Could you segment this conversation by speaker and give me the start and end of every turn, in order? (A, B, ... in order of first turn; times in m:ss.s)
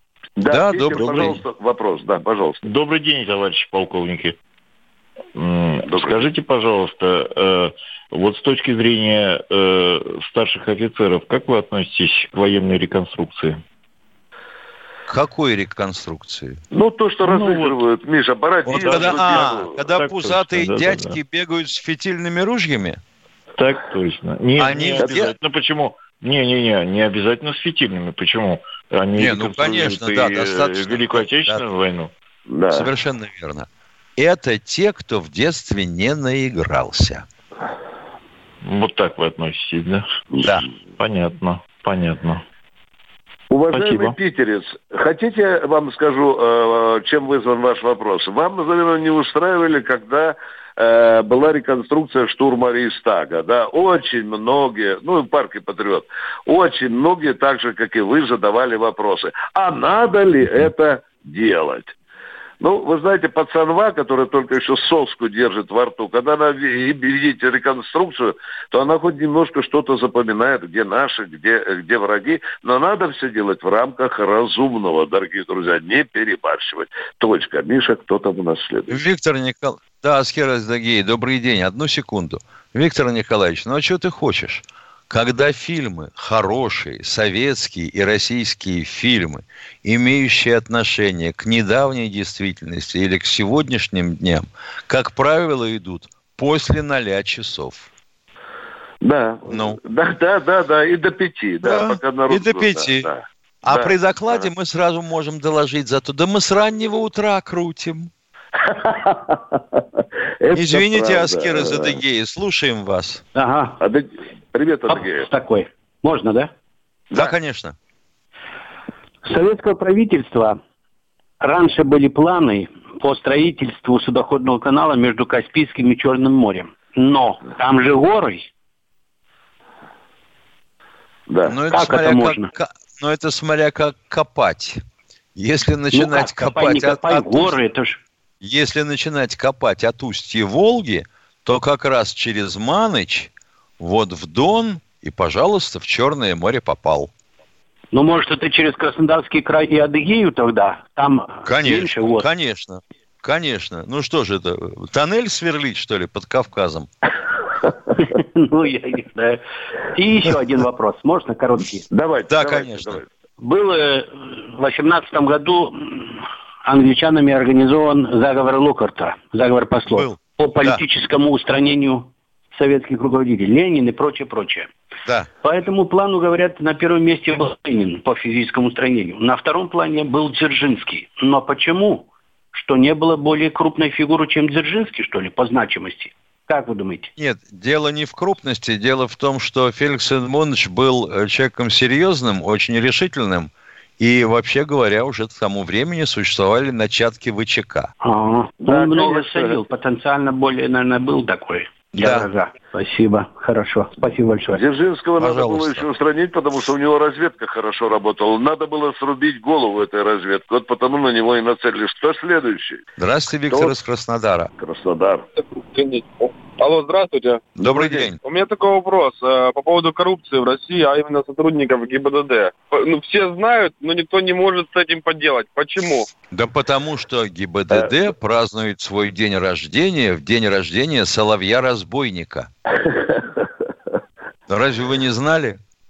0:00.4-0:02.6 A
0:00.5-0:01.4 B
0:01.0-0:01.4 C
0:02.6-0:04.4 C
0:05.4-0:13.6 C
0:15.1-0:16.6 B
0:16.7-0:19.7 A
0:17.2-0:17.7 C
0:18.6-0:23.0 B
0:18.7-0:21.2 C
0:23.6-0:32.1 C
0:24.6-0:25.3 B
0:29.2-0:31.6 B
0:32.5-0:32.9 A
0:32.7-0:37.2 B
0:38.6-0:40.0 C
0:41.0-0:42.4 C
0:43.5-1:01.9 A
0:43.7-0:44.2 C
1:02.6-1:19.0 A
1:18.9-1:37.9 B
1:39.0-1:44.4 A
1:39.5-1:39.8 B
1:41.6-1:43.1 B
1:43.6-1:48.1 B
1:48.6-1:49.8 A
1:50.4-1:52.0 A
1:50.5-1:53.2 B
1:53.3-1:53.8 D
1:53.8-1:55.3 A
1:54.9-1:56.5 D
1:57.1-1:57.7 B
1:59.2-2:00.6 D
2:01.4-2:08.5 D
2:11.3-2:11.5 A
2:11.5-2:14.8 B
2:11.7-2:12.5 D
2:15.4-2:17.6 B
2:15.9-2:18.0 D
2:18.4-2:27.1 B
2:27.9-2:32.3 D
2:31.4-2:36.9 B
2:38.0-2:39.4 D
2:39.9-2:41.8 D
2:41.9-2:43.0 A
2:42.3-2:43.0 B
2:43.4-2:54.7 D
2:49.9-2:50.8 B
2:55.4-3:07.1 D
3:07.2-3:17.9 B
3:18.0-3:24.6 D
3:18.6-3:19.6 A
3:22.0-3:22.3 B
3:24.5-3:32.8 A
3:25.2-3:25.9 B
3:33.0-3:34.5 B
3:34.6-3:35.2 A
3:35.6-3:37.5 E
3:37.6-3:38.2 B
3:38.2-3:46.1 E
3:46.3-3:52.5 B
3:52.8-3:53.4 A
3:54.5-3:55.6 B